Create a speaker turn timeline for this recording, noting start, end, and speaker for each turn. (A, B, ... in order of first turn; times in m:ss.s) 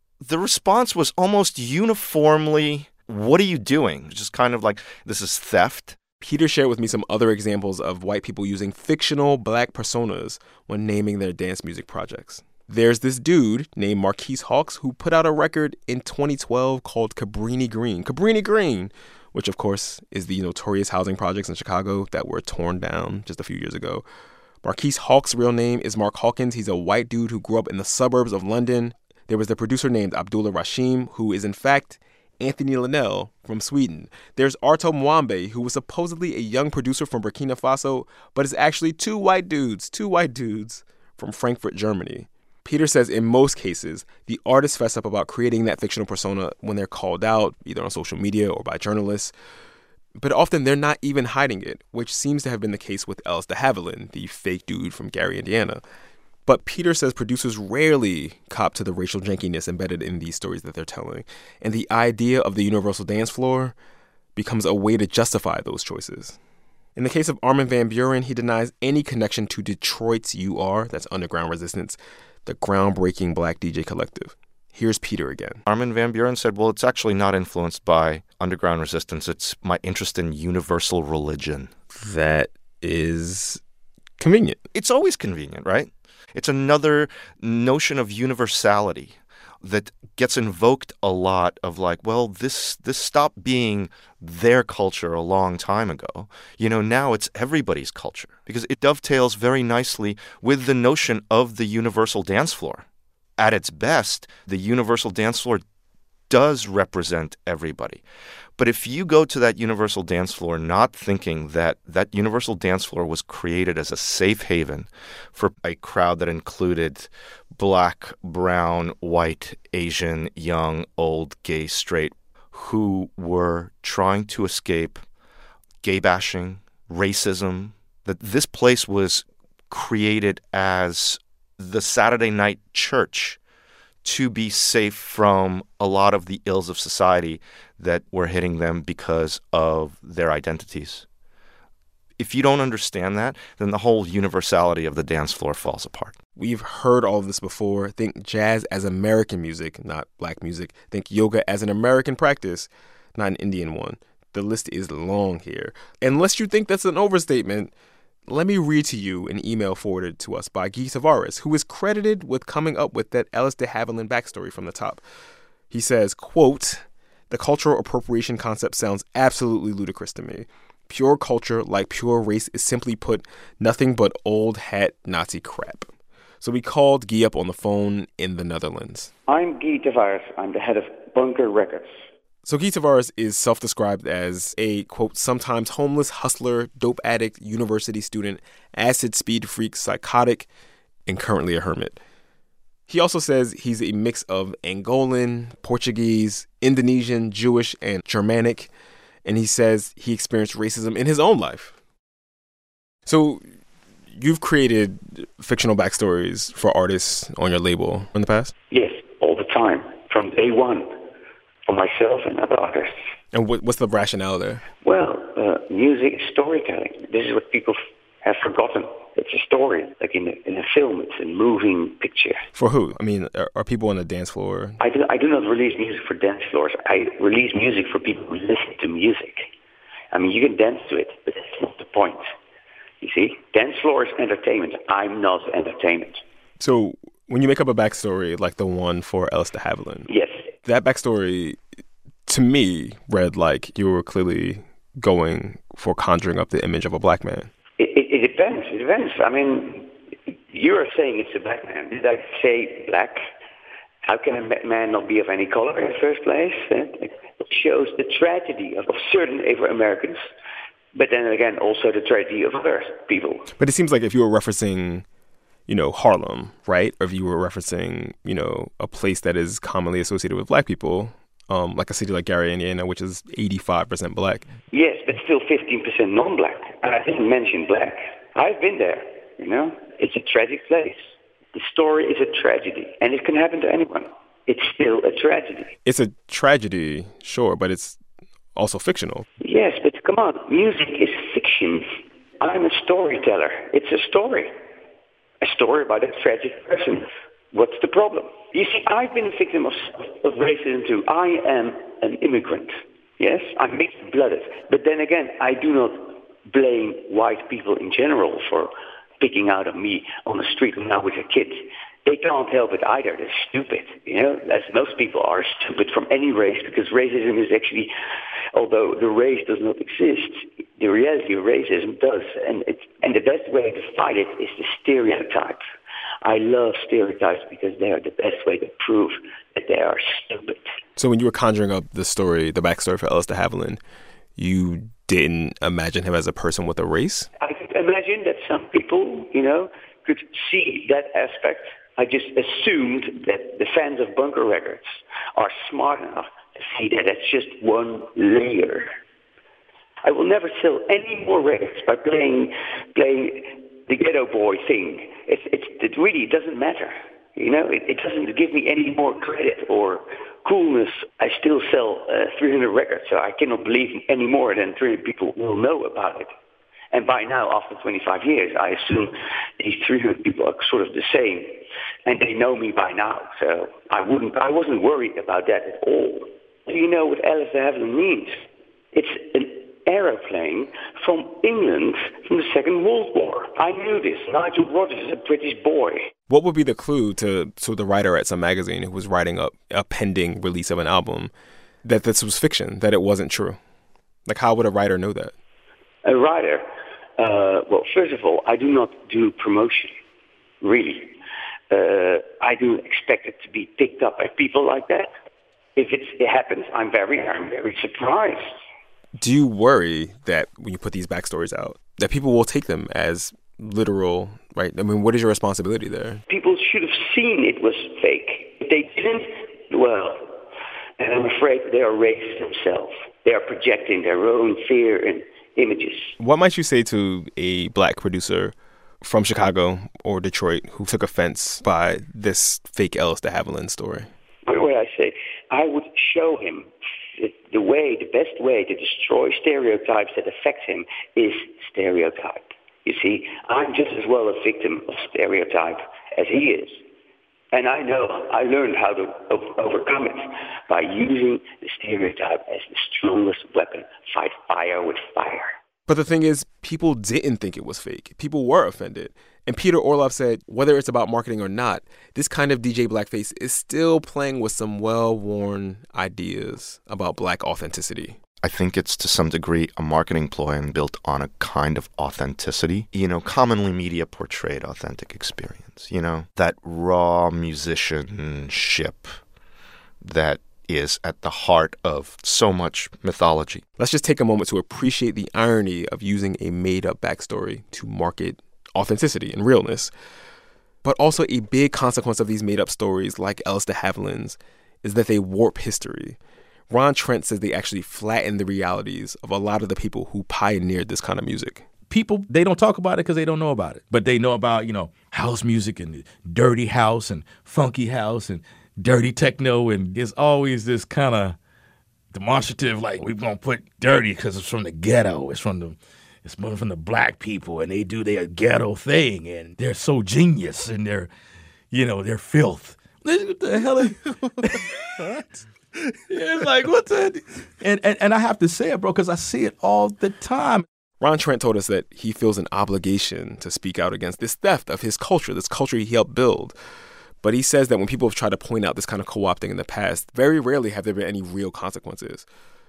0:00.2-0:06.0 A
0:06.2-0:24.0 B
0:24.6-0:49.3 B
0:50.2-0:55.8 B
0:56.4-1:03.7 B
1:04.4-1:06.4 B
1:07.0-1:15.6 B
1:15.6-1:21.7 A
1:21.9-1:23.6 B
1:24.2-1:24.6 B
1:24.7-1:42.8 A
1:43.4-1:45.6 A
1:46.3-1:48.0 A
1:48.6-2:05.0 A
2:05.8-2:13.4 A
2:14.0-2:21.0 A
2:22.2-2:26.2 A
2:26.4-2:37.7 B
2:38.3-2:45.0 B
2:45.7-2:55.9 B
2:56.4-2:59.1 B
2:59.3-3:01.9 C
3:02.4-3:10.5 B
3:11.1-3:12.0 B
3:12.9-3:18.7 B
3:19.2-3:21.7 B
3:23.0-3:23.4 B
3:24.1-3:28.5 B
3:28.7-3:31.0 C
3:31.7-3:32.9 C
3:33.3-3:34.6 B
3:34.8-3:42.4 C
3:42.5-3:44.8 B
3:44.8-3:49.5 C
3:50.1-3:52.2 C
3:53.0-3:56.2 C
3:56.6-4:00.1 B
4:00.1-4:00.4 C
4:00.6-4:01.6 B
4:02.3-4:07.5 B
4:07.8-4:13.2 C
4:14.0-4:20.2 C
4:20.9-4:23.4 C
4:23.6-4:25.0 B
4:25.7-4:34.4 B
4:34.7-4:41.0 C
4:41.5-4:45.7 C
4:45.8-4:48.0 B
4:48.5-4:49.2 B
4:49.4-4:51.8 C
4:52.4-4:54.5 C
4:55.4-5:17.9 C
5:18.5-5:25.6 C
5:26.2-5:30.6 C
5:31.0-5:33.8 B
5:34.4-5:37.3 B
5:37.4-5:48.9 C
5:50.0-6:06.3 C
6:06.9-6:18.4 C
6:18.9-6:26.1 C
6:26.3-6:31.3 B
6:31.8-6:33.6 B
6:34.3-6:35.3 B
6:36.0-6:36.6 C
6:37.2-6:40.0 C
6:40.6-6:41.1 C
6:41.7-6:45.1 C
6:45.8-6:48.5 C
6:49.2-6:56.2 B
6:56.3-7:00.3 C
7:01.0-7:06.1 C
7:06.2-7:14.1 B
7:14.4-7:26.8 C
7:27.5-7:35.5 C
7:35.9-7:48.2 B
7:48.4-7:59.1 A
8:00.0-8:03.6 A
8:03.8-8:09.9 B
8:10.8-8:16.2 B
8:16.7-8:21.6 B
8:21.9-8:31.4 D
8:32.1-8:41.1 D
8:41.7-8:45.2 D
8:46.1-8:50.6 D
8:51.0-8:56.5 B
8:57.2-9:02.2 B